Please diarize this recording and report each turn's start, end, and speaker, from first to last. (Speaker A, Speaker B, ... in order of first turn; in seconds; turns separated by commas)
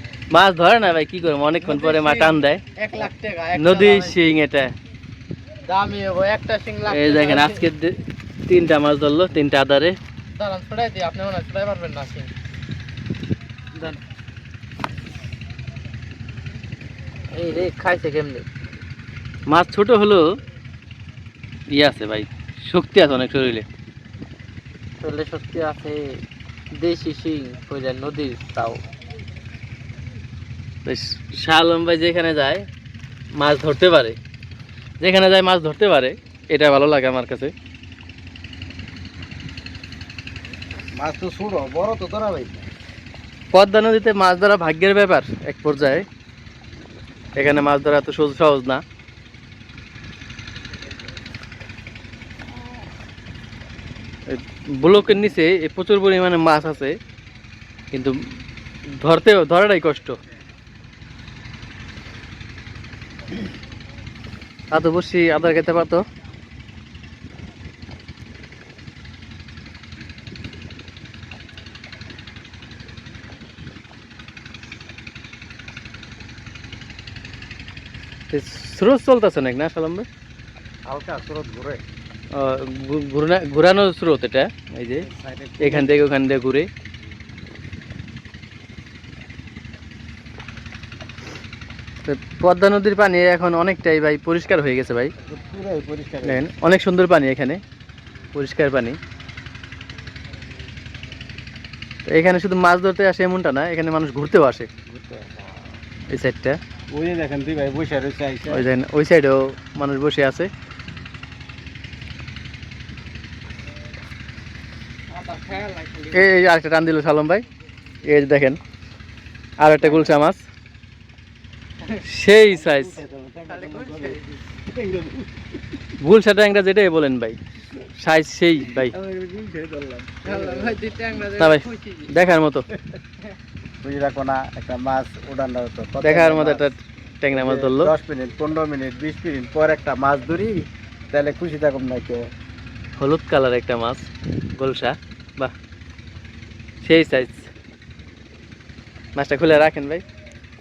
Speaker A: 0.3-2.6, Speaker B: 1.6-4.3, Speaker A: 3.5-4.7, Speaker B: 5.7-7.6, Speaker A: 6.9-10.0, Speaker B: 10.3-12.3, Speaker B: 13.7-14.0, Speaker B: 17.3-18.4, Speaker A: 19.5-20.4, Speaker A: 21.7-23.6, Speaker B: 25.0-28.8, Speaker A: 30.8-32.7, Speaker A: 33.3-34.2, Speaker A: 35.0-37.5, Speaker C: 41.0-42.7, Speaker A: 43.5-46.0, Speaker A: 47.4-48.8, Speaker A: 54.3-56.9, Speaker A: 59.0-60.1, Speaker A: 64.7-66.0, Speaker A: 78.3-80.0, Speaker C: 80.8-81.8, Speaker A: 82.3-85.0, Speaker C: 85.0-86.0, Speaker A: 85.6-86.7, Speaker A: 92.0-95.1, Speaker C: 95.2-96.4, Speaker A: 96.2-97.6, Speaker A: 98.3-99.0, Speaker A: 102.1-104.7, Speaker C: 104.9-105.7, Speaker A: 106.1-106.6, Speaker C: 106.9-108.7, Speaker A: 108.5-110.5, Speaker B: 115.1-116.3, Speaker A: 116.1-117.4, Speaker A: 118.0-118.6, Speaker A: 119.6-120.5, Speaker C: 119.8-120.1, Speaker A: 122.0-123.0, Speaker C: 122.5-125.3, Speaker B: 123.5-124.2, Speaker A: 126.0-127.4, Speaker A: 128.0-128.9, Speaker C: 128.6-130.8, Speaker B: 130.2-132.1, Speaker A: 131.3-132.7, Speaker C: 133.8-136.7, Speaker A: 136.0-137.9, Speaker C: 137.3-142.3, Speaker A: 143.0-145.5, Speaker A: 146.8-147.5, Speaker A: 149.2-150.0